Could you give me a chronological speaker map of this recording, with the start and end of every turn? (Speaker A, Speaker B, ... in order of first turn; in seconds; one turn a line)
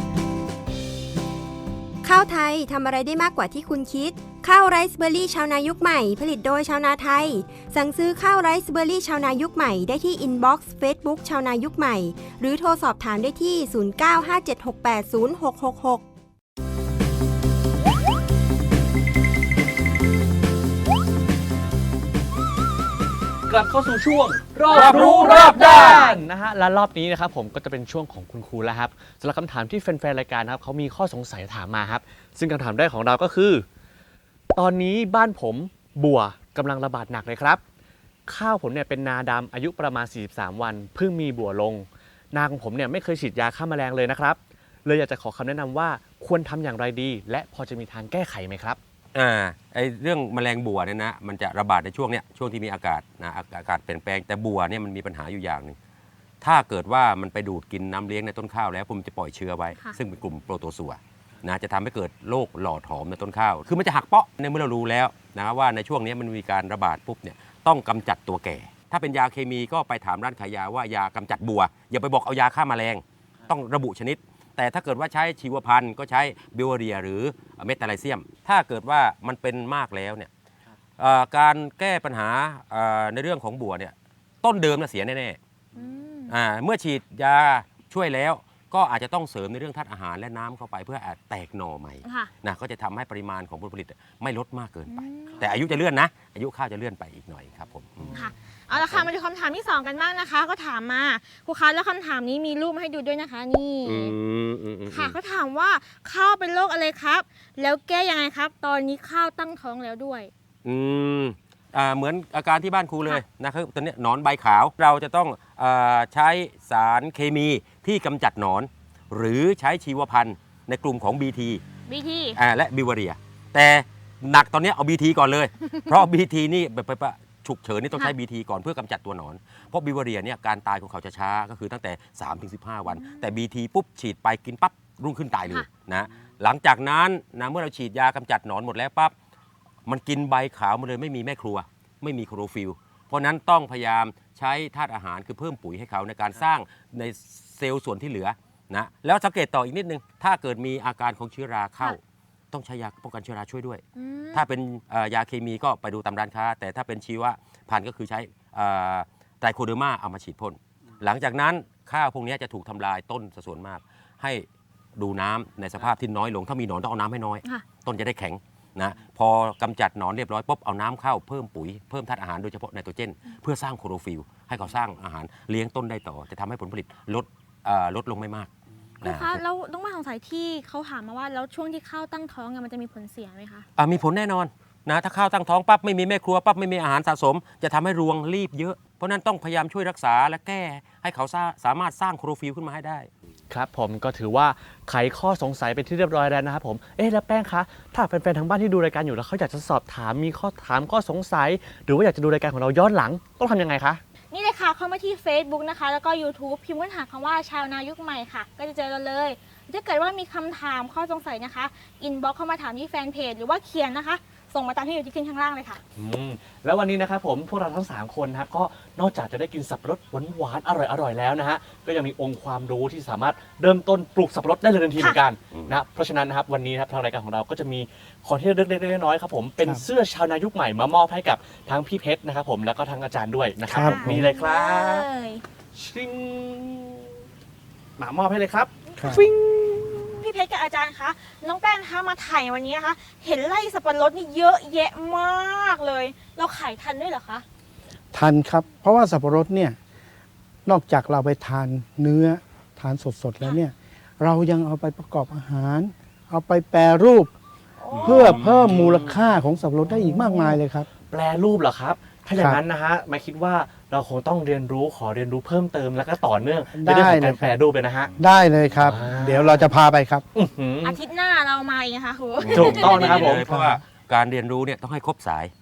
Speaker A: 2.0-16.0
Speaker B: 23.5-33.6
Speaker C: 24.7-26.1
Speaker D: 24.9-26.1
Speaker B: 34.5-37.6
Speaker B: 38.3-48.8
Speaker C: 49.1-55.8
Speaker C: 56.4-80.3
Speaker C: 81.0-85.4
Speaker D: 85.7-86.3
Speaker C: 86.3-98.1
Speaker D: 92.0-92.3
Speaker D: 94.9-95.5
Speaker D: 98.1-104.1
Speaker C: 98.7-99.1
Speaker C: 103.8-105.2
Speaker D: 104.9-110.3
Speaker C: 110.6-121.6
Speaker D: 121.9-122.4
Speaker C: 122.3-139.1
Speaker D: 132.9-133.3
Speaker C: 139.8-152.0
Speaker C: 152.5-178.5
Speaker D: 153.9-154.4
Speaker D: 179.0-183.6
Speaker C: 179.0-179.4
Speaker C: 183.8-193.1
Speaker B: 193.5-204.0
Speaker D: 204.3-215.8
Speaker B: 215.9-235.1
Speaker D: 233.7-235.4
Speaker E: 233.7-234.2
Speaker B: 235.7-237.1
Speaker B: 238.0-240.1
Speaker E: 239.0-239.2
Speaker D: 240.0-247.4
Speaker E: 248.1-249.8
Speaker E: 250.7-257.3
Speaker B: 257.8-259.1
Speaker E: 258.0-260.9
Speaker B: 260.0-260.5
Speaker B: 261.1-268.1
Speaker E: 262.4-262.6
Speaker E: 266.7-267.5
Speaker E: 268.2-270.2
Speaker B: 268.8-269.6
Speaker B: 270.3-271.0
Speaker D: 270.8-273.3
Speaker C: 272.4-275.5
Speaker B: 272.5-273.8